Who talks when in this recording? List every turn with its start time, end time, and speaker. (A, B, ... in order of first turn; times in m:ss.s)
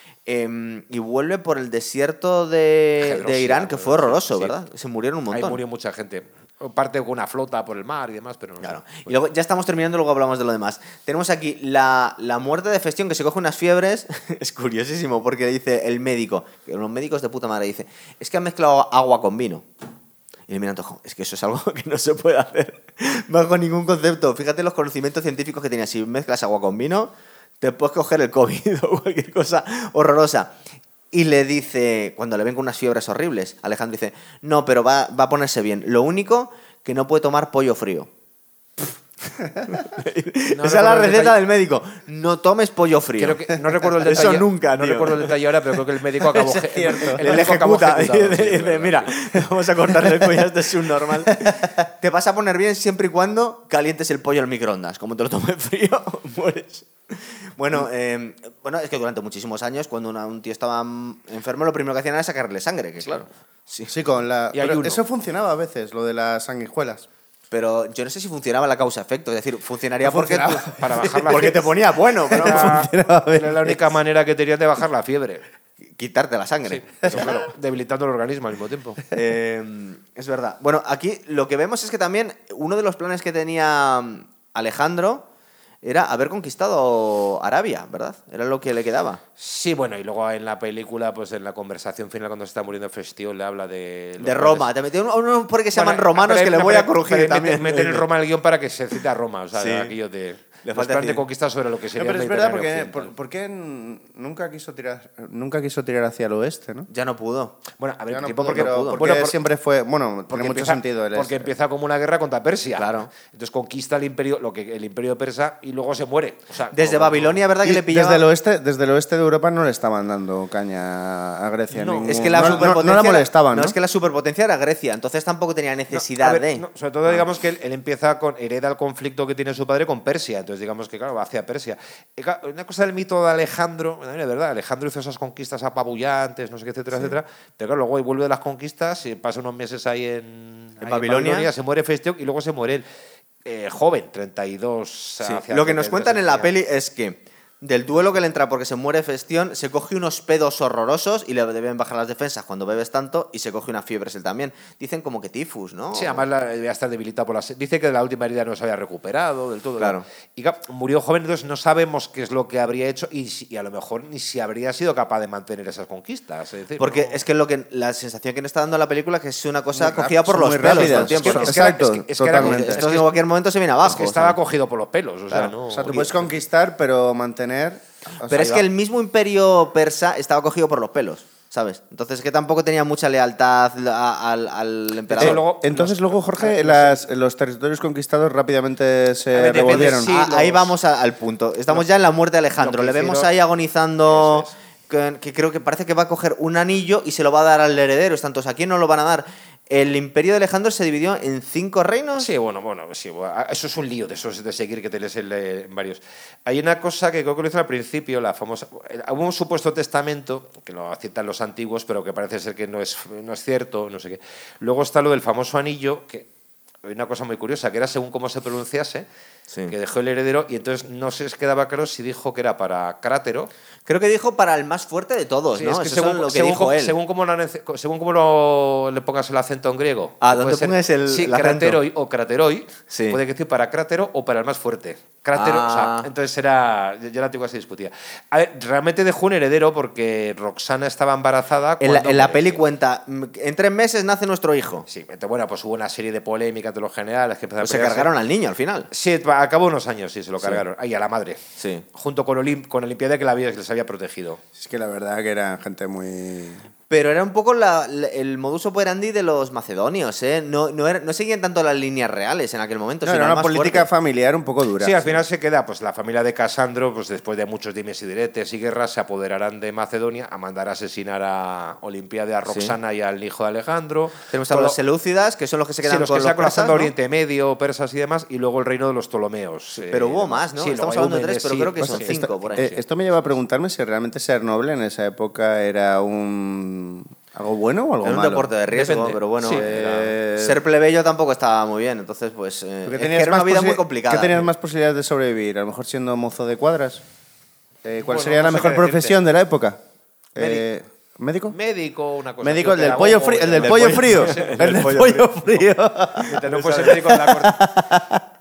0:00.3-0:05.6 A
0:03.0-0:04.6 B
0:05.3-0:09.1 B
0:08.6-0:19.7 A
0:20.5-0:30.6 A
0:31.1-0:38.1 A
0:39.4-0:45.4 A
0:40.5-0:41.4 B
0:43.2-0:49.1 B
0:46.3-0:47.4 C
0:47.2-1:03.9 A
0:51.3-0:51.7 C
1:03.9-1:07.1 C
1:04.5-1:05.0 B
1:07.5-1:12.8 A
1:10.1-1:11.7 B
1:10.1-1:11.5 C
1:12.3-1:15.4 B
1:12.3-1:13.9 C
1:16.0-1:17.4 A
1:16.7-1:19.0 B
1:19.1-1:25.3 A
1:25.8-1:29.2 A
1:29.4-1:34.7 B
1:34.2-1:38.1 A
1:35.7-1:43.1 B
1:39.5-1:40.0 A
1:40.6-1:41.2 A
1:42.0-1:46.9 C
1:46.9-1:47.6 A
1:47.8-1:49.4 B
1:48.1-1:51.5 C
1:48.3-1:49.0 A
1:50.3-1:57.4 B
1:52.8-1:53.1 A
1:56.7-1:58.2 A
1:57.6-2:03.8 C
2:01.7-2:02.8 B
2:02.0-2:07.2 A
2:05.9-2:22.8 B
2:20.8-2:21.5 A
2:23.4-2:26.5 B
2:25.2-2:36.2 A
2:35.9-2:47.2 B
2:39.8-2:40.0 A
2:46.8-2:51.6 A
2:49.8-2:52.8 C
2:50.7-2:53.2 B
2:52.4-2:54.4 A
2:53.8-2:56.2 B
2:55.3-2:58.6 C
2:58.2-3:05.4 A
3:05.1-3:07.0 B
3:05.2-3:10.1 C
3:09.3-3:10.8 B
3:09.5-3:22.3 A
3:12.6-3:13.3 B
3:14.1-3:14.5 B
3:22.2-3:36.3 B
3:36.8-3:39.1 B
3:39.7-3:43.5 B
3:43.9-3:47.0 A
3:45.6-4:02.6 B
3:50.2-3:51.8 A
3:52.9-3:53.2 A
3:55.4-3:56.1 A
4:01.8-4:04.9 A
4:04.9-4:08.1 B
4:07.6-4:08.9 A
4:08.9-4:11.4 B
4:11.6-4:11.9 A
4:11.9-4:14.4 B
4:14.6-4:16.6 C
4:16.9-4:23.9 A
4:23.0-4:25.2 C
4:24.8-4:34.8 B
4:32.5-4:32.8 A
4:34.3-4:36.9 A
4:35.8-4:42.8 B
4:39.9-4:42.7 A
4:41.8-4:48.5 C
4:48.0-4:49.8 A
4:48.7-4:50.2 B
4:49.4-4:50.6 C
4:50.3-4:54.5 A
4:52.8-4:57.0 C
4:57.8-4:59.8 C
4:58.0-4:59.2 B
5:00.4-5:01.6 C
5:00.4-5:00.6 B
5:01.5-5:05.6 B
5:02.4-5:08.2 C
5:03.6-5:05.2 A
5:06.2-5:07.7 B
5:06.5-5:06.9 A